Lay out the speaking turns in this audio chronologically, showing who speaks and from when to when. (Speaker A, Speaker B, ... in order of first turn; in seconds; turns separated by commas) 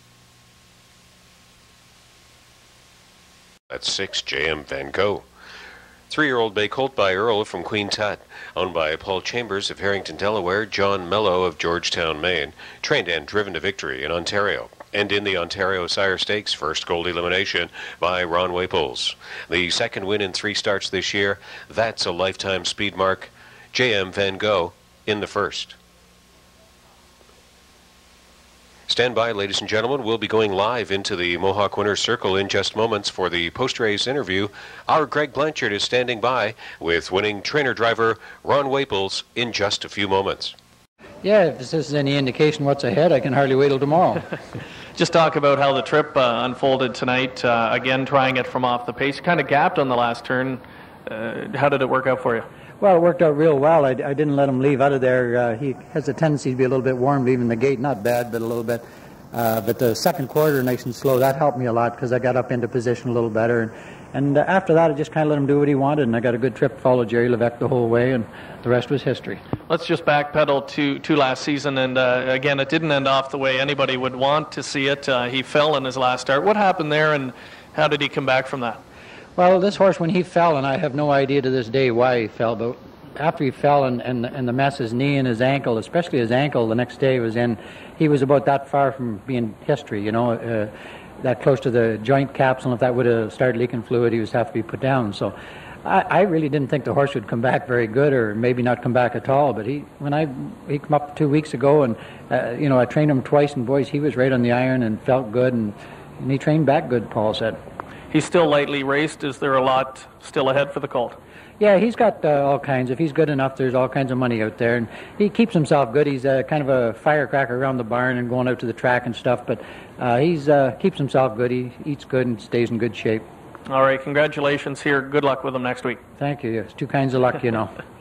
Speaker A: 3.7-5.2, Speaker A: 6.1-25.8, Speaker A: 28.9-40.5, Speaker B: 41.2-44.2, Speaker C: 45.0-52.5, Speaker B: 52.8-69.4, Speaker C: 69.7-78.8, Speaker B: 79.4-107.6, Speaker C: 108.1-111.2, Speaker B: 111.6-123.2, Speaker C: 123.7-126.0, Speaker B: 126.2-127.7